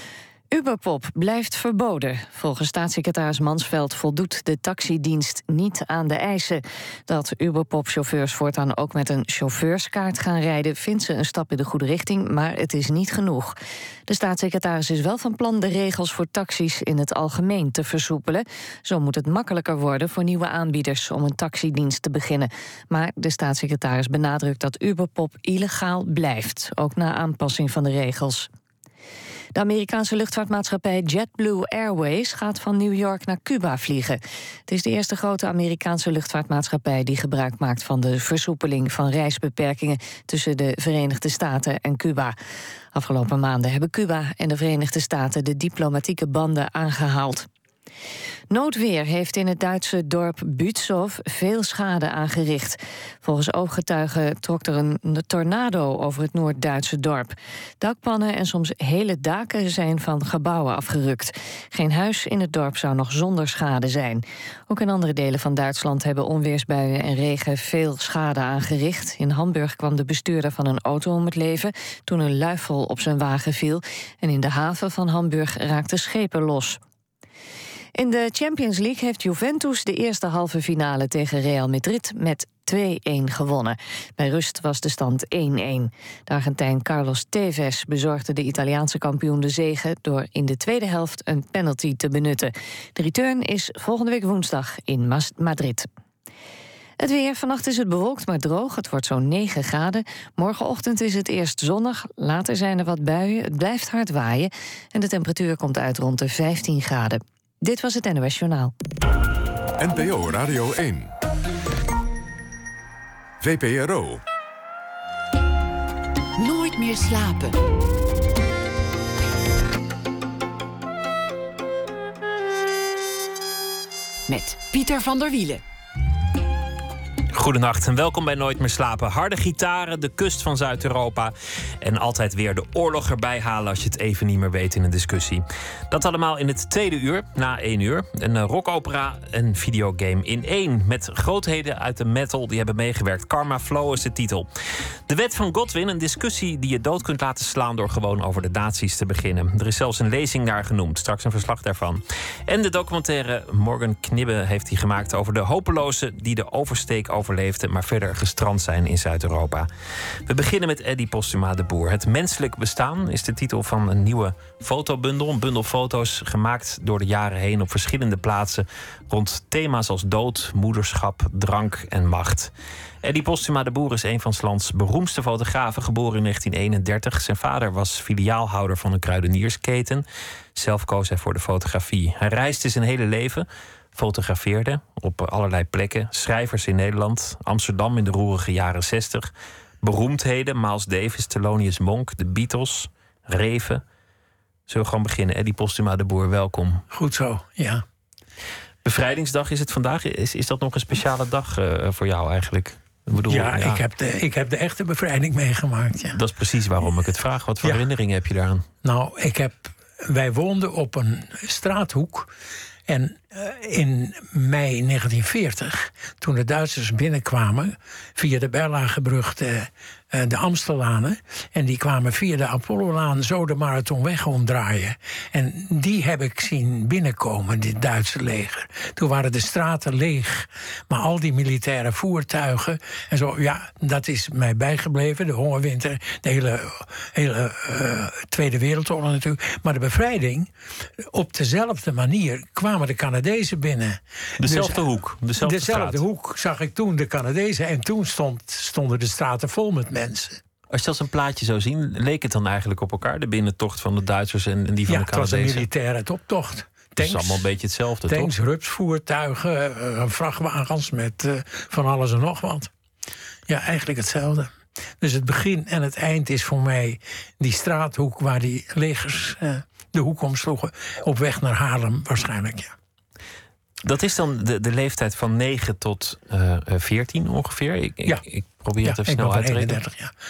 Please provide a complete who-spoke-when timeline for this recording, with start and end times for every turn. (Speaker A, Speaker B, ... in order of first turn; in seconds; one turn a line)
Speaker A: 0.5-28.5
Speaker A: 29.6-42.4
Speaker A: 42.9-47.5
Speaker A: 48.5-76.8
Speaker A: 78.0-95.9
Speaker A: 97.0-108.7
Speaker B: 109.8-111.1
Speaker B: 113.4-114.2
Speaker C: 116.4-117.6
Speaker C: 124.3-125.6
Speaker D: 127.3-144.5
Speaker D: 145.1-159.7
Speaker D: 160.3-172.5
Speaker D: 173.0-180.0
Speaker D: 180.6-189.3
Speaker D: 189.8-193.8
Speaker D: 194.7-196.8
Speaker E: 196.9-197.8
Speaker D: 198.8-203.8
Speaker E: 203.2-206.2
Speaker D: 206.1-208.7
Speaker E: 208.8-212.3
Speaker E: 212.9-244.8
Speaker D: 244.4-246.0
Speaker E: 245.4-250.4
Speaker D: 250.7-255.7
Speaker E: 254.9-257.5
Speaker D: 257.0-258.3
Speaker E: 258.1-262.7
Speaker E: 263.5-272.8
Speaker D: 273.8-279.8
Speaker E: 278.8-280.1